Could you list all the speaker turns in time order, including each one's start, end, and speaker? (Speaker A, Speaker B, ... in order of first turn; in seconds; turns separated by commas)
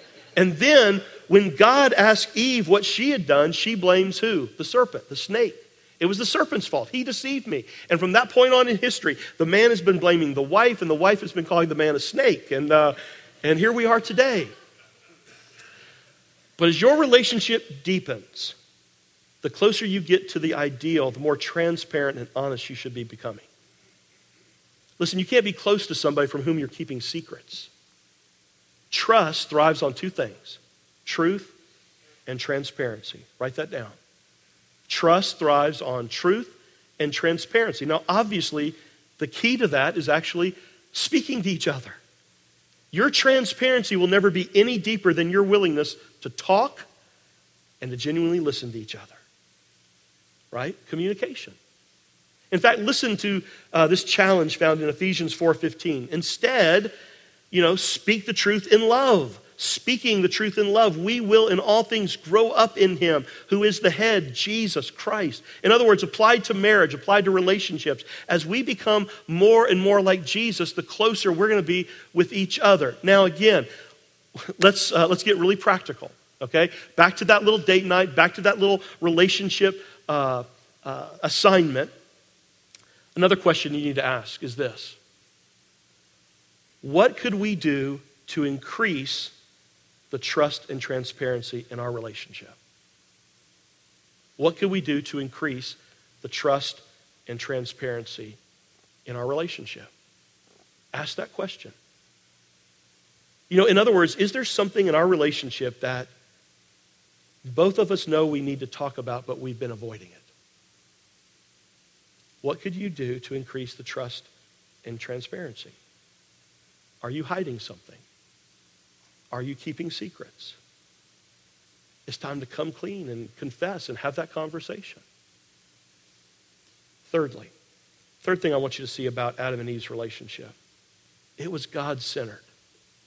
Speaker A: 0.3-14.5, Speaker A: 16.6-18.6, Speaker A: 19.4-23.5, Speaker A: 25.0-27.7, Speaker A: 28.9-31.5, Speaker A: 32.2-34.0, Speaker A: 34.9-42.0, Speaker A: 42.9-46.9, Speaker A: 47.8-49.2, Speaker A: 50.5-51.6, Speaker A: 52.5-56.9, Speaker A: 57.5-73.7, Speaker A: 74.6-81.9, Speaker A: 83.1-85.0, Speaker A: 86.8-89.3, Speaker A: 90.1-92.5, Speaker A: 94.4-98.4, Speaker A: 99.0-99.9, Speaker A: 100.9-101.7, Speaker A: 103.5-106.1, Speaker A: 107.5-110.2, Speaker A: 112.4-114.3, Speaker A: 114.8-115.7, Speaker A: 117.0-118.0, Speaker A: 119.3-120.6, Speaker A: 122.1-125.0, Speaker A: 127.1-127.5, Speaker A: 128.2-130.5, Speaker A: 131.4-132.4